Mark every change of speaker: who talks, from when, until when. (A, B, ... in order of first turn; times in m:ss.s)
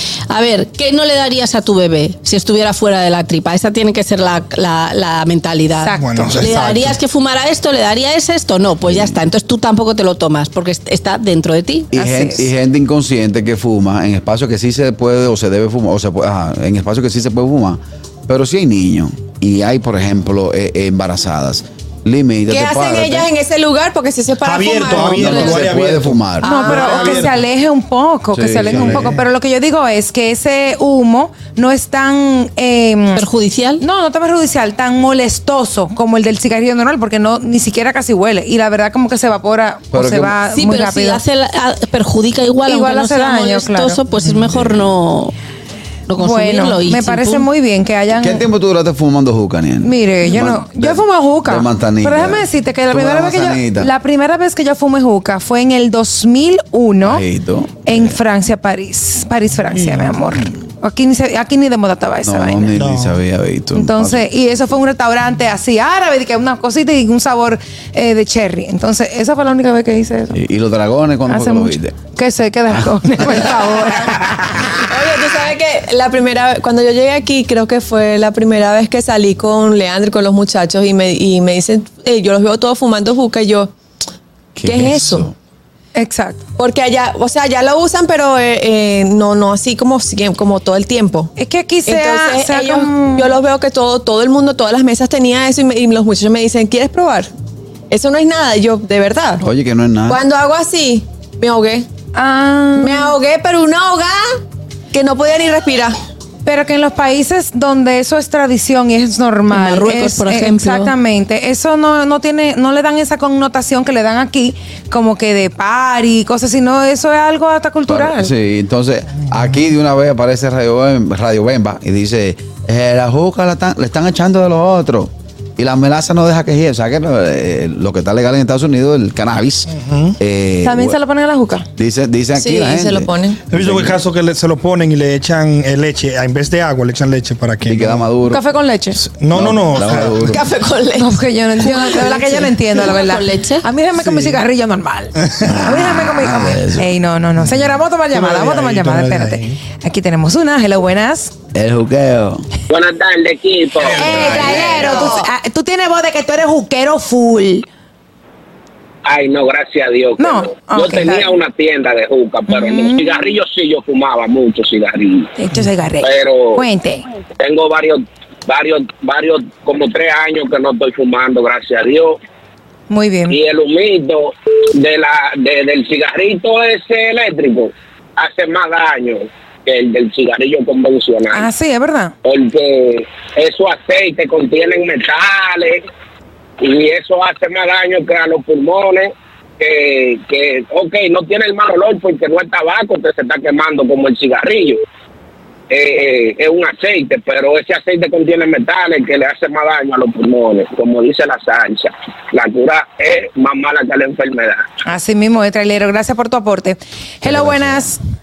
0:00.3-0:11.9 A
0:05.8-0:06.1 B
0:05.9-0:07.0 C
0:08.9-0:09.1 D
0:11.9-0:23.3 D
0:12.0-0:12.5 B
0:22.5-0:25.7 E
0:24.4-0:27.4 C
0:25.1-0:26.7 D
0:26.4-0:33.2 B
0:26.4-0:27.2 E
0:28.3-0:29.1 D
0:28.7-0:29.2 C
0:33.2-0:33.8 A
0:33.8-0:41.2 B
0:39.9-0:40.4 D
0:40.5-0:45.3 A
0:42.7-0:44.0 B
0:46.1-0:47.5 A
0:46.2-0:48.4 B
0:48.1-0:53.9 D
0:49.8-0:57.2 B
0:57.0-0:58.2 D
0:57.9-1:02.7 B
0:59.7-1:00.1 C
1:02.2-1:04.3 D
1:02.8-1:03.2 C
1:03.8-1:10.4 B
1:10.3-1:12.0 D
1:11.3-1:14.6 B
1:12.8-1:13.4 D
1:14.8-1:23.8 E
1:24.6-1:25.4 D
1:24.6-1:25.3 E
1:26.0-1:26.4 B
1:26.6-1:31.3 E
1:31.4-1:33.3 B
1:31.9-1:37.3 E
1:37.9-1:39.4 E
1:39.4-1:40.2 D
1:40.1-1:41.9 E
1:42.2-1:43.1 B
1:42.8-1:44.4 E
1:44.9-1:46.0 E
1:46.4-1:58.3 B
1:49.5-1:50.9 A
1:57.9-2:11.0 D
2:09.7-2:10.2 C
2:10.6-2:11.7 B
2:11.8-2:14.0 D
2:12.4-2:13.4 E
2:13.5-2:18.1 C
2:17.6-2:18.4 D
2:18.3-2:19.0 B
2:19.1-2:20.3 C
2:19.3-2:20.4 D
2:20.2-2:21.9 E
2:21.0-2:31.3 B
2:22.1-2:23.6 A
2:24.0-2:24.4 C
2:25.2-2:25.7 C
2:25.4-2:26.9 D
2:27.4-2:29.6 C
2:31.5-2:32.5 D
2:32.7-2:34.8 F
2:34.0-2:37.7 B
2:34.0-2:34.8 D
2:34.1-2:35.3 E
2:39.0-2:45.3 F
2:40.2-2:41.3 B
2:42.5-2:43.2 B
2:45.4-2:47.0 B
2:46.0-2:46.6 F
2:47.4-2:52.2 F
2:52.9-2:53.4 B
2:53.3-3:01.5 F
3:01.3-3:02.1 B
3:02.2-3:05.9 F
3:06.6-3:14.8 F
3:15.7-3:24.7 F
3:24.8-3:28.0 B
3:27.2-3:27.8 D